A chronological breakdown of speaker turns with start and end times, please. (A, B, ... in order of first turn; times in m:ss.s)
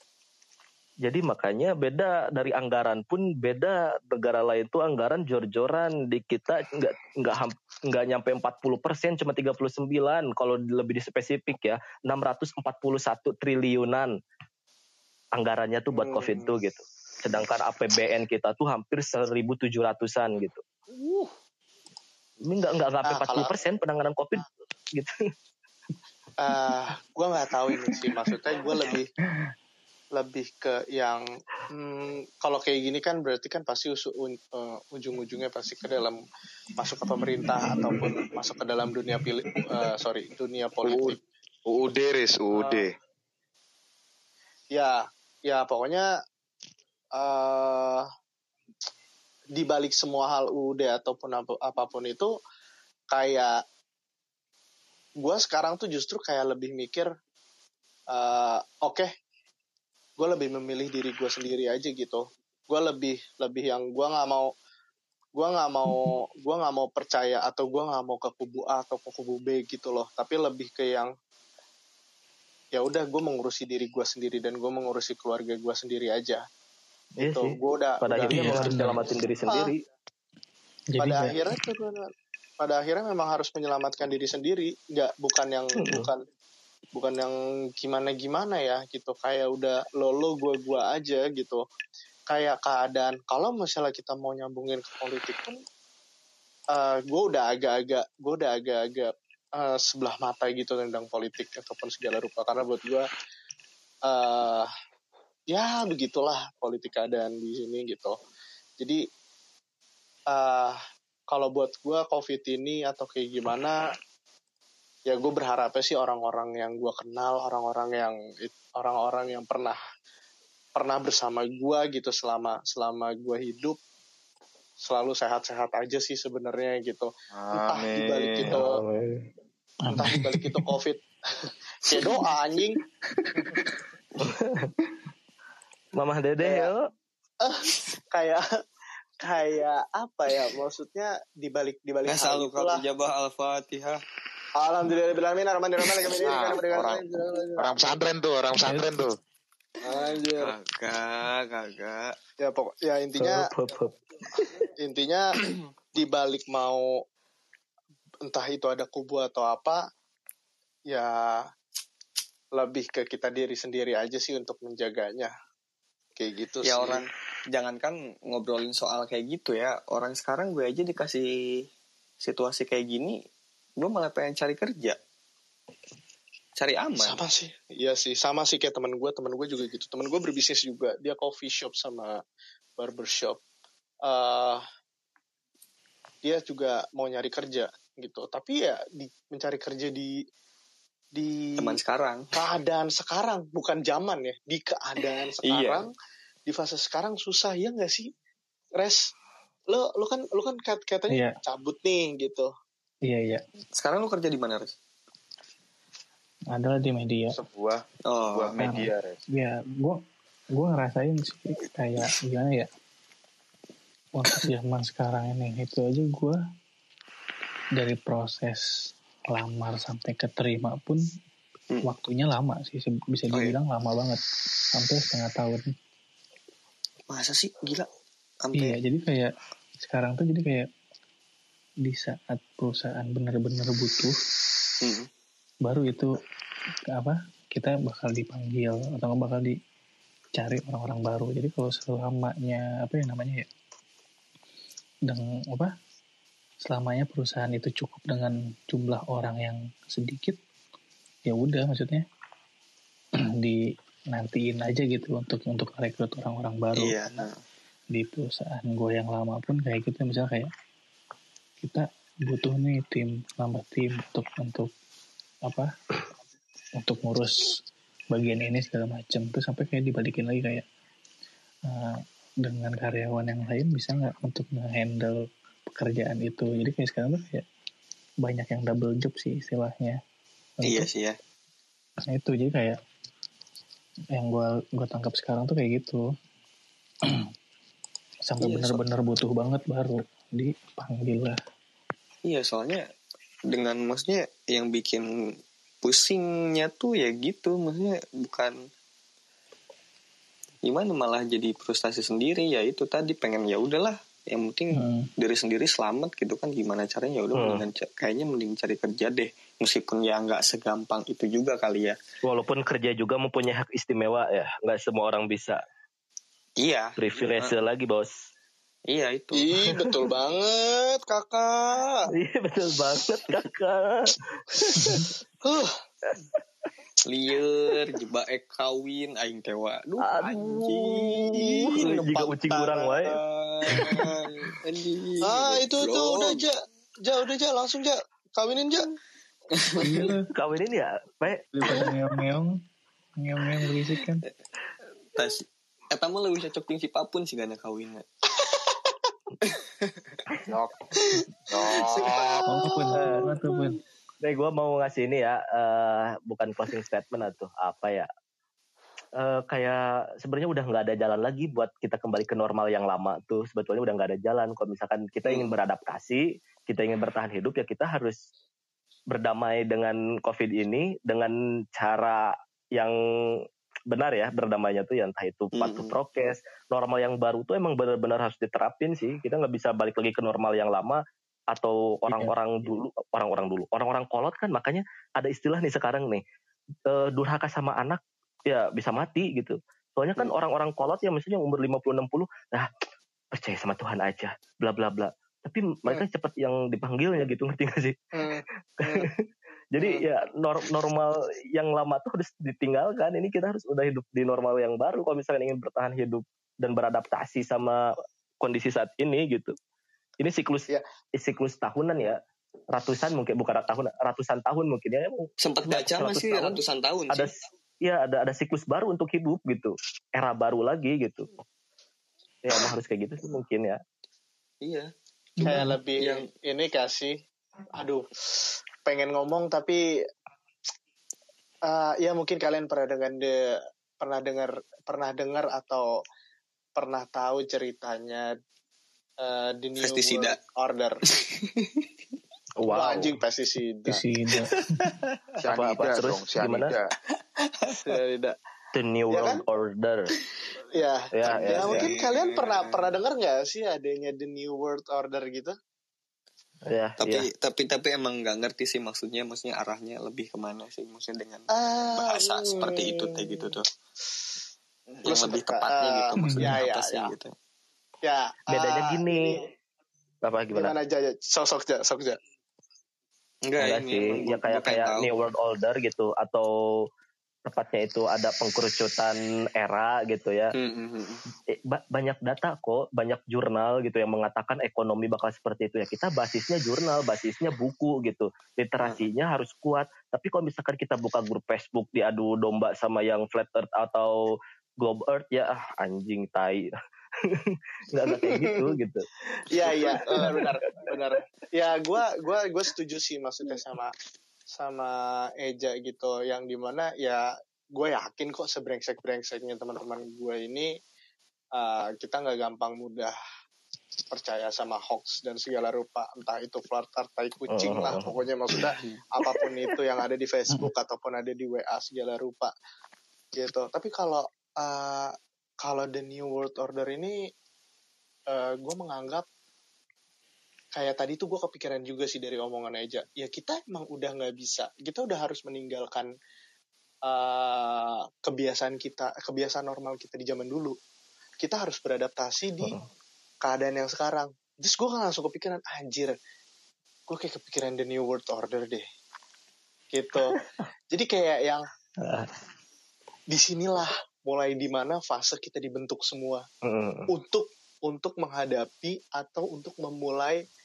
0:01.0-0:14.1 A
0:15.4-0:20.6 A
0:16.0-0:16.5 B
0:20.9-0:21.3 B
0:22.4-0:25.1 A
0:23.1-0:23.5 B
0:26.4-0:29.1 B
0:30.2-0:36.2 B
0:36.8-0:41.2 B
0:40.9-0:41.2 C
0:41.7-0:43.0 C
0:42.5-0:42.8 B
0:44.7-0:46.1 B
0:47.2-0:48.1 B
0:49.6-0:52.4 B
0:53.1-0:53.6 B
0:55.2-0:57.1 B
0:58.1-0:59.1 B
1:00.2-1:04.5 B
1:05.4-1:11.1 B
1:12.7-1:16.4 B
1:17.2-1:19.8 A
1:17.2-1:19.7 B
1:18.3-1:19.0 D
1:21.0-1:21.4 D
1:21.0-1:22.1 B
1:22.6-1:26.2 B
1:25.8-1:26.1 A
1:26.9-1:31.6 B
1:32.3-1:35.6 B
1:36.7-1:43.1 B
1:44.1-1:44.7 B
1:45.5-1:48.2 B
1:50.3-1:50.8 B
1:51.3-1:53.9 B
1:55.1-1:59.8 B
2:00.8-2:03.8 B
2:04.8-2:08.8 B
2:07.3-2:08.6 C
2:08.4-2:09.3 A
2:09.9-2:10.7 D
2:09.9-2:12.8 B
2:14.2-2:14.7 A
2:15.9-2:16.9 A
2:16.4-2:16.7 B
2:17.4-2:18.4 B
2:19.2-2:22.8 B
2:22.1-2:24.0 E
2:24.6-2:27.7 B
2:26.2-2:27.0 C
2:27.6-2:29.2 C
2:28.6-2:28.9 D
2:29.8-2:30.6 B
2:29.9-2:32.2 E
2:32.4-2:33.5 B
2:33.2-2:34.6 A
2:34.7-2:35.4 B
2:36.0-2:36.9 B
2:38.2-2:39.8 B
2:40.9-2:41.5 B
2:42.6-2:45.3 B
2:46.2-2:47.0 B
2:46.6-2:51.7 E
2:52.2-2:53.2 E
2:53.8-2:55.0 E
2:56.6-2:57.2 E
2:57.0-3:02.2 B
3:02.8-3:03.4 B
3:04.0-3:04.6 B
3:06.2-3:10.2 B
3:11.2-3:11.8 B
3:11.6-3:12.3 E
3:12.3-3:15.9 B
3:15.4-3:15.8 E
3:16.5-3:18.1 B
3:18.8-3:19.1 B
3:19.7-3:22.5 B
3:23.1-3:23.4 D
3:23.8-3:24.7 E
3:26.5-3:27.4 D
3:27.3-3:29.2 C
3:28.1-3:28.6 E
3:28.6-3:30.0 D
3:30.6-3:32.7 D
3:34.2-3:36.4 D
3:37.8-3:38.7 D
3:39.3-3:41.0 D
3:41.8-3:44.2 D
3:44.7-3:45.7 D
3:47.1-3:47.9 E
3:48.4-3:48.8 E
3:48.6-3:50.7 D
3:51.8-3:54.2 D
3:54.8-3:55.1 E
3:55.6-3:56.2 D
3:56.9-3:59.6 D
4:00.4-4:03.5 D
4:05.1-4:05.7 D
4:06.6-4:10.4 D
4:11.3-4:12.0 D
4:14.1-4:17.3 D
4:16.8-4:17.4 E
4:17.9-4:20.5 D
4:21.6-4:24.7 D
4:26.8-4:27.6 D
4:28.1-4:30.6 D
4:31.7-4:35.2 D
4:35.7-4:37.4 D
4:38.2-4:40.0 D
4:40.6-4:40.9 D
4:40.6-4:41.2 E
4:42.1-4:42.8 D
4:44.1-4:46.0 D
4:48.3-4:51.4 D
4:48.4-4:48.8 E
4:52.2-4:52.9 E
4:53.5-4:58.7 E
5:00.6-5:12.0 E
5:04.7-5:05.1 D
5:07.3-5:07.7 A
5:12.2-5:15.6 A
5:16.6-5:17.6 E
5:17.0-5:18.1 A
5:18.9-5:19.4 E
5:19.3-5:22.1 B
5:19.6-5:20.1 A
5:22.1-5:25.1 A
5:24.8-5:25.0 D
5:25.4-5:25.7 B
5:26.1-5:26.4 A
5:27.1-5:31.1 E
5:30.0-5:33.2 A
5:31.2-5:33.1 B
5:31.8-5:32.1 E
5:33.2-5:36.5 E
5:33.7-5:34.1 D
5:33.8-5:34.0 B
5:35.2-5:39.0 B
5:39.5-5:39.9 E
5:39.8-5:40.3 D
5:40.3-5:41.8 A
5:41.5-5:42.6 D
5:43.2-5:44.2 D
5:45.1-5:48.1 E
5:48.4-5:48.7 B
5:49.4-5:50.2 E
5:50.5-5:50.8 C
5:51.5-5:52.8 C
5:51.8-5:52.9 E
5:52.5-5:53.8 D
5:53.0-5:53.3 A
5:54.2-5:58.1 A
5:59.2-6:08.2 A
6:05.2-6:05.6 E
6:09.1-6:21.0 A
6:15.5-6:16.0 E
6:21.5-6:26.2 A
6:22.1-6:22.3 D
6:26.9-6:32.7 A
6:33.3-6:38.0 A
6:38.1-6:39.1 B
6:38.8-6:49.5 A
6:39.8-6:40.0 B
6:50.2-6:52.2 A
6:52.7-7:01.3 A
6:55.4-6:57.3 E
7:02.4-7:03.8 A
7:04.6-7:04.9 E
7:05.4-7:05.8 D
7:05.4-7:07.2 B
7:05.4-7:06.2 E
7:07.8-7:09.8 B
7:11.7-7:15.9 B
7:16.8-7:18.3 B
7:19.2-7:21.0 B
7:19.8-7:20.4 E
7:21.1-7:21.9 E
7:22.6-7:23.2 A
7:22.7-7:24.0 B
7:23.9-7:24.9 D
7:24.3-7:25.2 E
7:25.4-7:26.9 C
7:25.5-7:26.7 A
7:27.4-7:27.9 E
7:27.7-7:28.4 B
7:28.7-7:30.1 A
7:29.1-7:29.4 B
7:30.7-7:35.5 B
7:31.1-7:31.9 A
7:31.3-7:33.0 E
7:36.7-7:37.3 A
7:37.0-7:43.6 E
7:41.5-7:43.3 B
7:44.9-7:47.1 B
7:45.0-7:47.3 E
7:46.2-7:46.6 D
7:48.0-7:49.5 B
7:48.5-7:49.4 A
7:50.2-7:50.8 A
7:50.6-7:52.2 B
7:53.5-7:55.1 E
7:53.6-7:56.5 A
7:57.4-8:00.6 A
8:00.6-8:01.2 E
8:01.5-8:16.7 A
8:17.2-8:19.1 A
8:18.1-8:18.8 B
8:19.4-8:23.9 B
8:19.7-8:20.8 A
8:24.5-8:30.7 B
8:31.6-8:33.1 B
8:34.1-8:42.5 B
8:37.5-8:38.2 A
8:43.3-8:47.2 B
8:48.3-8:49.3 B
8:50.7-8:56.1 B
8:57.0-9:00.8 B
9:01.4-9:02.8 B
9:03.4-9:06.2 B
9:07.1-9:08.8 B
9:09.9-9:10.4 B
9:10.2-9:10.6 A
9:10.9-9:11.7 B
9:12.0-9:12.3 A
9:13.3-9:16.5 B
9:16.6-9:17.1 A
9:17.1-9:20.4 B